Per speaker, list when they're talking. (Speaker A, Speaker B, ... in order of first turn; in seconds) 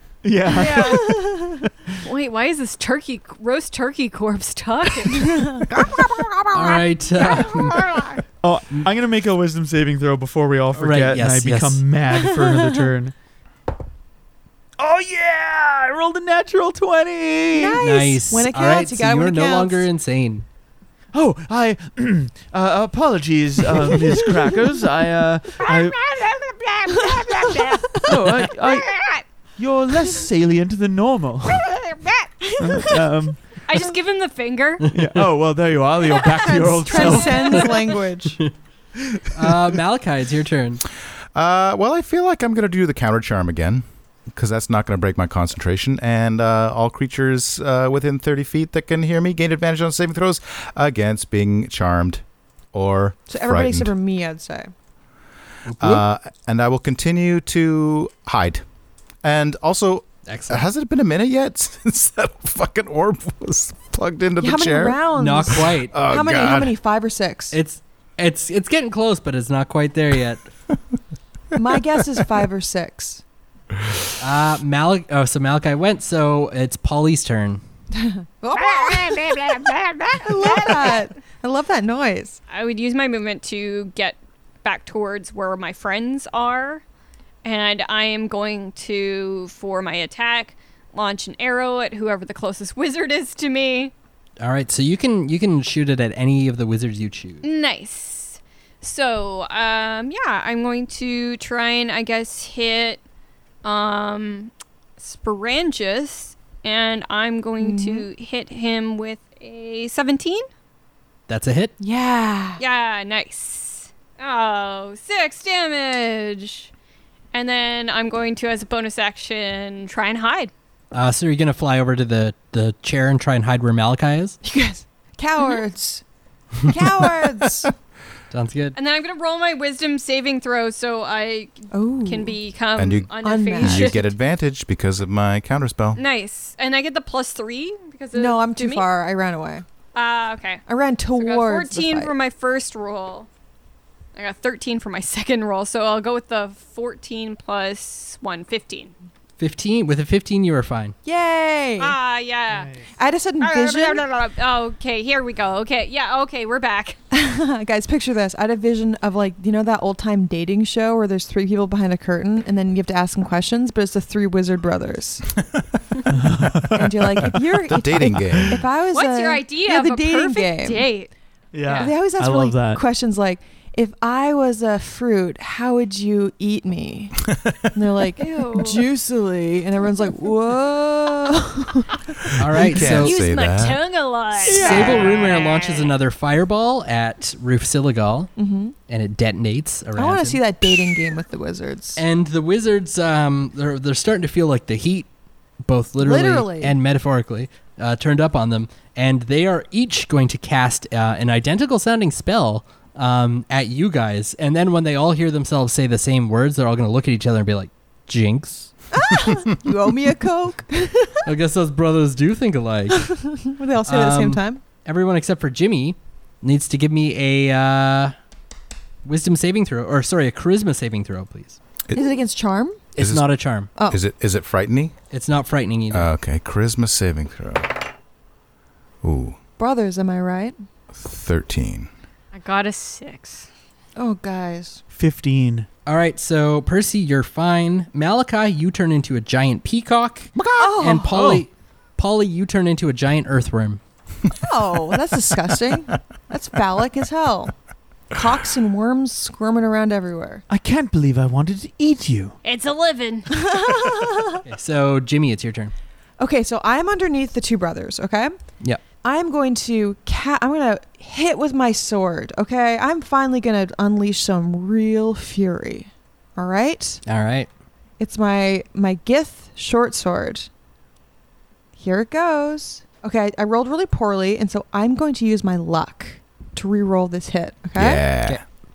Speaker A: 0.2-1.3, 8.4-13.1, 14.8-17.8, 21.1-26.0, 28.0-29.0, 29.6-31.7, 32.6-33.4, 34.9-37.8, 39.1-39.5, 152.5-152.8, 166.1-167.4, 171.5-172.8, 184.5-185.0, 234.9-235.7, 250.5-252.4
Speaker B: 0.5-1.1, 2.0-5.6, 25.6-29.2, 33.7-34.9, 36.9-37.8, 78.5-81.1, 82.5-86.8, 87.4-93.9, 97.4-103.0, 103.6-110.5, 112.6-116.7, 117.3-120.5, 128.8-134.1, 136.0-138.9, 139.9-140.6, 141.2-143.3, 144.2-148.9, 151.8-152.8, 153.4-157.0, 168.9-171.1, 171.7-171.9, 178.2-178.9, 182.7-185.9, 232.3-233.5, 252.4-253.3
Speaker C: 0.7-1.7, 5.1-8.2, 12.1-12.9, 17.5-19.9, 27.1-28.1, 32.4-33.1, 36.4-38.4, 53.3-54.7, 64.4-67.6, 71.5-73.2, 78.0-79.4, 80.2-82.4, 107.6-108.1, 111.8-112.6, 124.4-126.0, 126.6-127.7, 131.7-132.4, 133.2-134.0, 138.2-139.7, 140.7-142.1, 151.1-152.0, 153.0-154.0, 157.1-165.3, 166.7-170.9, 171.7-182.0, 184.5-185.1, 188.4-188.8, 190.0-192.0, 196.0-196.8, 208.9-211.3, 212.9-214.6, 221.9-222.8, 229.6-230.6, 234.0-234.8, 240.6-241.2, 244.3-247.5, 248.1-250.4, 253.3-254.4, 256.2-258.4, 259.0-267.0, 268.0-270.5, 271.8-278.1
Speaker D: 6.5-7.9, 10.8-11.8, 17.8-20.4, 39.3-40.8, 55.7-56.0, 60.3-60.6, 65.2-65.9, 67.5-70.5, 74.2-77.6, 94.4-97.4, 111.3-111.7, 120.9-124.4, 128.3-128.8, 149.4-150.9, 182.4-183.2, 184.5-188.3, 188.9-190.4, 192.0-195.1, 195.7-208.7, 211.2-213.1, 213.8-218.2, 219.1-221.6, 222.9-223.7, 225.1-226.1, 235.9-243.8, 254.4-255.7, 267.1-267.5
Speaker E: 41.4-52.2, 52.7-53.9, 55.8-58.6, 59.2-65.0, 65.7-66.8, 132.8-136.0, 167.7-168.6, 182.5-183.8, 223.0-224.9, 225.9-227.8, 229.0-229.4, 230.9-231.9, 240.3-240.9, 277.8-278.4